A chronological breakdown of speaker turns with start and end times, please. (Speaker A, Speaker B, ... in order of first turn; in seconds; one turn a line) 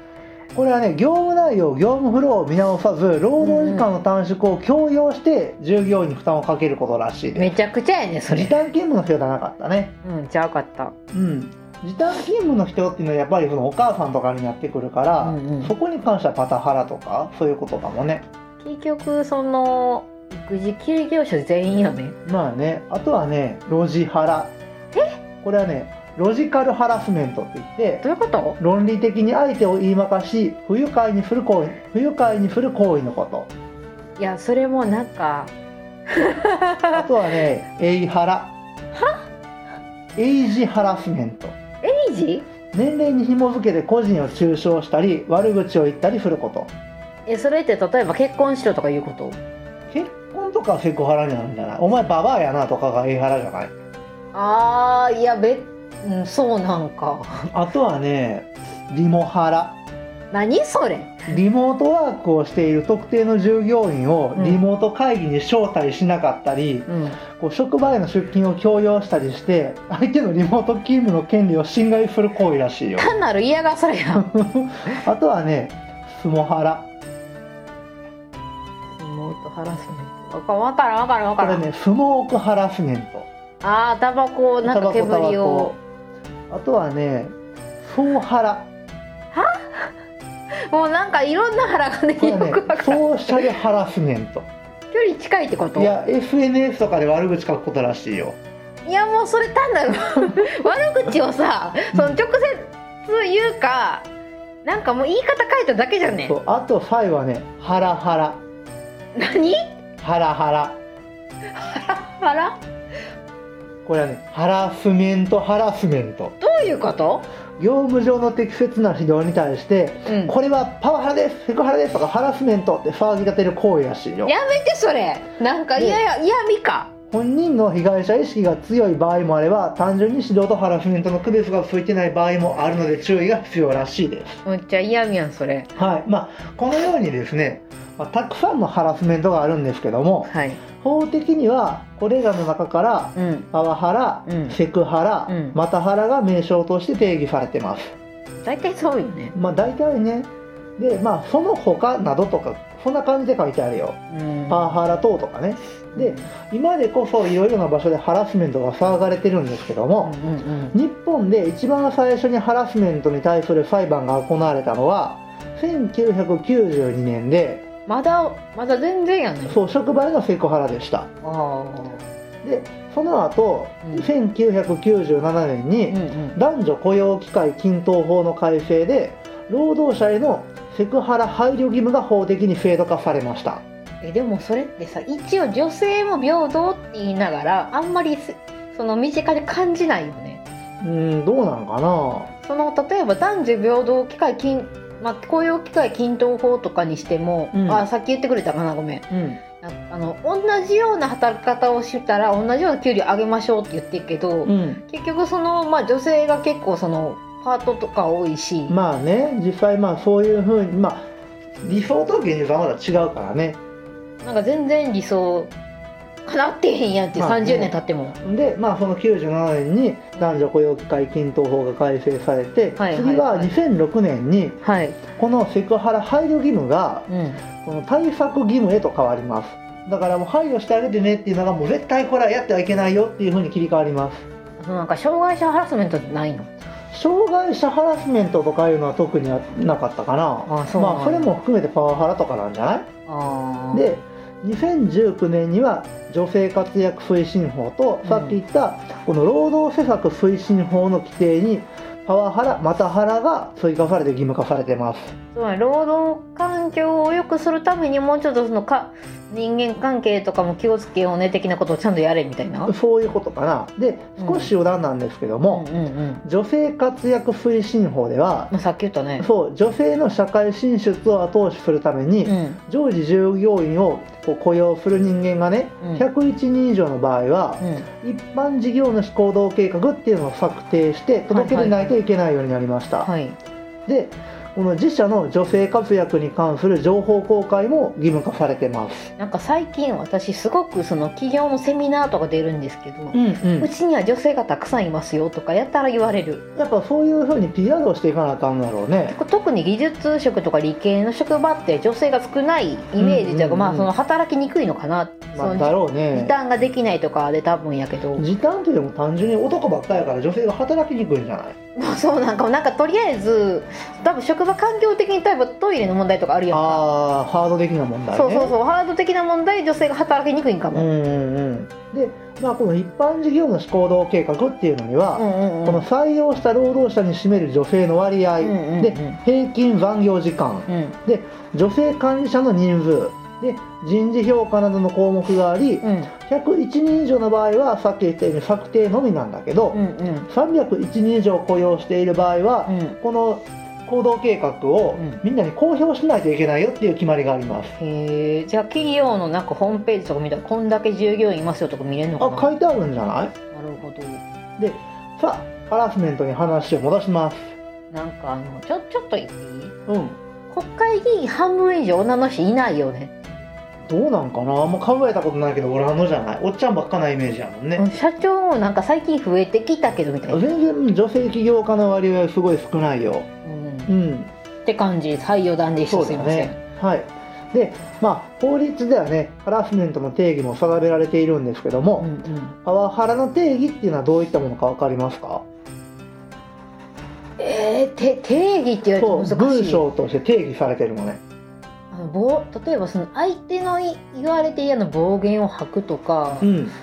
Speaker A: 0.5-7.5
Speaker B: 3.4-3.9
Speaker B: 7.4-8.5
Speaker A: 8.3-10.0
Speaker B: 10.0-10.9
Speaker A: 11.1-18.2
Speaker B: 15.2-15.7
Speaker B: 18.6-22.2
Speaker A: 22.2-24.6
Speaker A: 25.4-28.0
Speaker B: 28.0-28.6
Speaker A: 28.6-33.5
Speaker B: 34.2-35.5
Speaker B: 36.1-37.1
Speaker A: 36.9-38.5
Speaker B: 38.9-39.2
Speaker A: 40.2-41.6
Speaker B: 41.8-42.5
Speaker A: 42.7-46.7
Speaker B: 47.3-49.4
Speaker A: 49.9-53.7
Speaker B: 54.3-57.5
Speaker A: 57.5-59.8
Speaker B: 60.3-61.4
Speaker A: 61.3-73.1
Speaker B: 64.3-64.6
Speaker B: 66.9-67.2
Speaker B: 73.0-74.3
Speaker A: 74.2-76.9
Speaker B: 79.0-81.6
Speaker A: 81.4-83.3
Speaker B: 83.6-85.7
Speaker A: 84.6-85.8
Speaker A: 86.5-88.7
Speaker B: 89.3-89.9
Speaker B: 90.6-93.5
Speaker A: 92.2-94.5
Speaker B: 94.9-95.9
Speaker A: 95.8-98.4
Speaker B: 98.8-104.1
Speaker A: 101.9-102.2
Speaker B: 104.7-106.3
Speaker A: 106.2-108.4
Speaker B: 109.2-109.6
Speaker A: 110.0-110.8
Speaker B: 111.4-112.6
Speaker A: 113.8-116.4
Speaker B: 116.4-117.3
Speaker A: 117.6-124.3
Speaker B: 120.1-120.3
Speaker B: 124.2-126.9
Speaker A: 127.1-134.4
Speaker B: 134.5-135.7
Speaker A: 135.8-147.9
Speaker B: 140.3-140.6
Speaker B: 143.2-143.5
Speaker B: 144.3-144.6
Speaker B: 145.3-145.6
Speaker B: 148.4-149.3
Speaker A: 149.3-154.0
Speaker B: 154.1-154.8
Speaker A: 154.5-160.2
Speaker B: 155.9-156.3
Speaker B: 160.0-160.8
Speaker A: 160.7-167.7
Speaker B: 167.9-169.6
Speaker A: 169.5-171.1
Speaker B: 171.2-172.1
Speaker A: 172.4-183.6
Speaker B: 175.9-176.4
Speaker B: 184.0-190.4
Speaker A: 190.8-192.3
Speaker B: 192.4-199.1
Speaker A: 197.5-197.8
Speaker A: 199.1-199.4
Speaker B: 199.6-208.8
Speaker A: 204.4-204.8
Speaker A: 208.7-211.1
Speaker A: 211.6-213.6
Speaker B: 214.2-215.5
Speaker B: 216.2-218.2
Speaker A: 217.2-224.6
Speaker B: 220.2-220.5
Speaker B: 222.8-223.5
Speaker B: 224.6-225.0
Speaker A: 225.2-227.1
Speaker B: 227.1-227.4
Speaker A: 227.6-234.3
Speaker B: 234.6-236.5
Speaker A: 236.9-242.9
Speaker B: 240.5-241.3
Speaker B: 243.1-243.9
Speaker A: 243.7-255.1
Speaker B: 248.0-248.4
Speaker B: 255.3-262.7
Speaker A: 262.7-265.7
Speaker B: 264.2-264.5
Speaker B: 265.5-266.2
Speaker A: 266.2-268.5
Speaker B: 268.5-269.3
Speaker A: 269.2-283.1
Speaker B: 272.2-272.6
Speaker B: 277.6-277.9
Speaker B: 281.3-282.0
Speaker B: 283.0-283.4
Speaker A: 283.9-289.1
Speaker B: 289.2-296.4
Speaker A: 293.1-293.7
Speaker A: 296.6-299.2
Speaker B: 299.1-308.3
Speaker A: 303.0-303.9
Speaker A: 305.3-306.3
Speaker A: 308.2-311.6
Speaker B: 311.8-316.8
Speaker A: 316.5-318.5
Speaker B: 318.1-320.9
Speaker A: 320.7-347.8
Speaker B: 325.2-325.8
Speaker B: 328.4-329.2
Speaker B: 330.7-331.0
Speaker B: 335.8-336.1
Speaker B: 339.7-340.3
Speaker B: 342.7-343.0
Speaker B: 347.8-352.6
Speaker A: 352.2-353.3
Speaker B: 353.5-354.2
Speaker A: 354.6-357.6
Speaker B: 357.9-359.8
Speaker A: 359.9-360.2
Speaker B: 360.5-363.4
Speaker A: 363.9-367.9
Speaker B: 367.8-370.4
Speaker A: 370.3-373.3
Speaker B: 373.4-373.9
Speaker A: 373.9-374.3
Speaker B: 374.6-376.6
Speaker A: 375.9-382.1
Speaker B: 382.0-382.6
Speaker A: 382.6-385.5
Speaker B: 387.4-389.8
Speaker A: 389.0-391.2
Speaker B: 391.9-396.5
Speaker A: 396.4-396.7